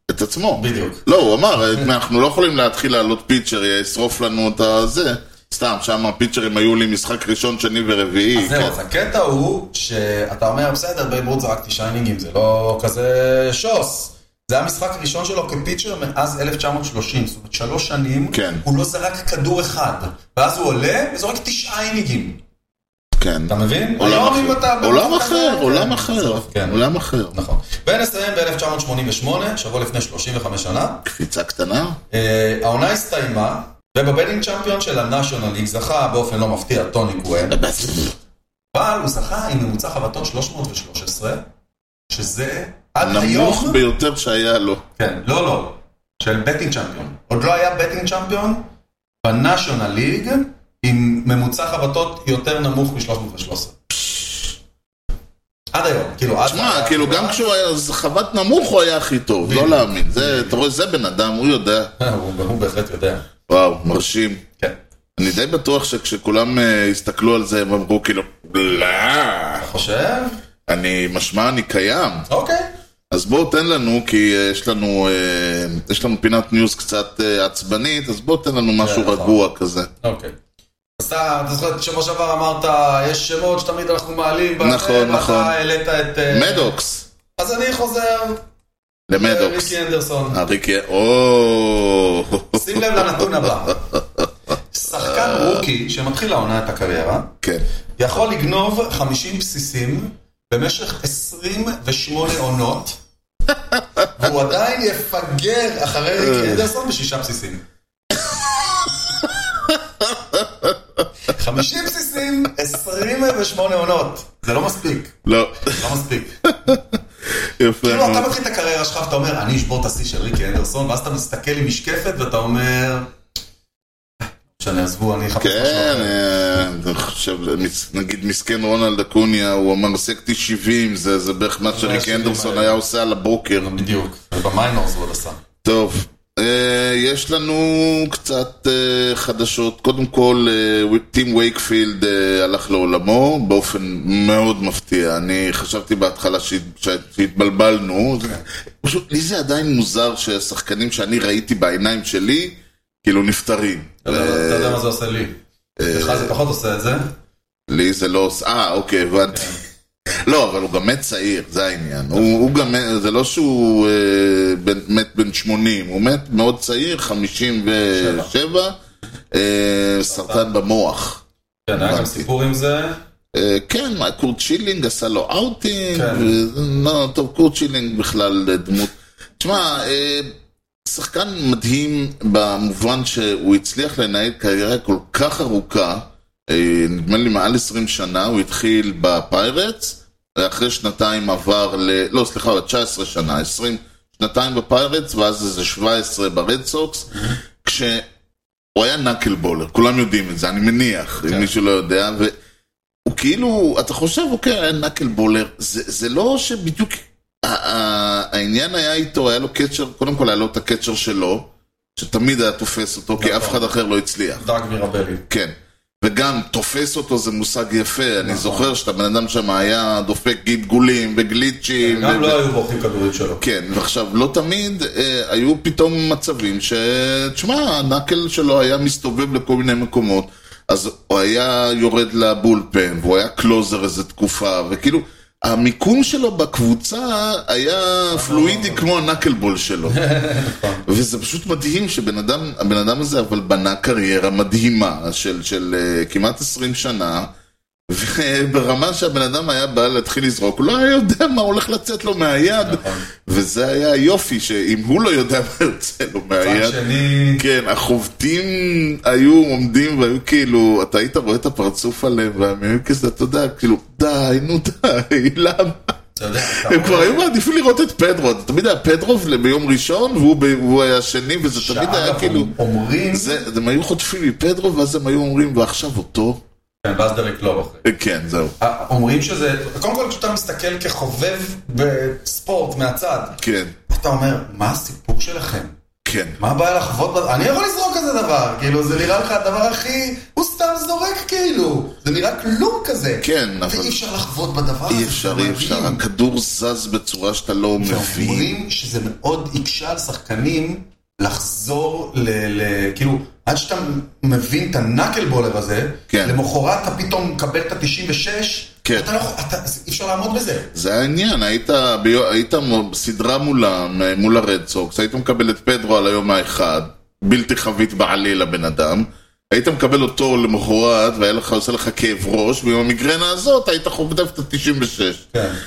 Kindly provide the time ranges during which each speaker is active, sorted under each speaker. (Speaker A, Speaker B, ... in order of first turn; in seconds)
Speaker A: 0.1-8.8, 18.3-18.6, 23.2-27.4, 31.0-32.0, 37.5-38.1, 43.0-44.8, 53.9-54.5, 56.5-61.9, 63.5-64.4, 65.2-69.7, 70.7-72.3, 73.1-79.9, 84.6-85.5, 86.3-87.0, 89.1-89.7, 90.3-93.3, 95.1-95.4, 106.2-106.6, 108.2-110.8, 115.2-115.8, 116.5-117.0, 117.6-118.3, 125.4-133.7, 135.6-154.8, 155.8-156.3, 157.7-159.6, 160.1-168.8, 169.3-171.2, 171.7-172.3, 173.3-180.3, 180.8-198.1, 198.8-202.3, 203.1-214.4, 215.3-222.4, 223.4-240.0, 240.8-247.3, 247.9-256.8, 257.3-265.9, 266.4-272.5, 273.1-276.4, 277.8-278.5, 283.4-283.7, 286.0-286.4, 293.2-294.0, 294.9-298.5, 306.1-306.4, 310.7-325.2
Speaker B: 0.5-1.0, 8.3-22.4, 23.5-26.8, 27.3-31.0, 32.1-37.6, 38.7-41.4, 42.1-43.8, 45.0-48.7, 49.2-53.7, 55.7-57.4, 59.4-60.6, 62.0-63.2, 69.6-70.4, 72.3-72.7, 78.8-79.4, 80.0-80.3, 81.0-86.7, 87.4-88.4, 89.2-90.4, 92.5-93.8, 94.7-97.3, 98.0-103.0, 104.2-107.6, 111.3-116.3, 117.8-123.1, 124.5-126.2, 131.7-132.8, 133.6-135.4, 154.0-155.4, 155.9-157.1, 162.1-162.5, 167.9-168.3, 170.1-170.5, 171.7-173.0, 175.9-176.3, 201.2-201.5, 213.2-213.7, 214.4-215.2, 218.2-218.7, 221.8-223.4, 238.1-239.0, 239.9-240.8, 252.6-253.0, 256.4-257.4, 266.1-267.2, 271.5-273.4, 276.8-277.8, 278.6-285.7, 286.4-296.0, 297.8-310.7, 325.3-325.6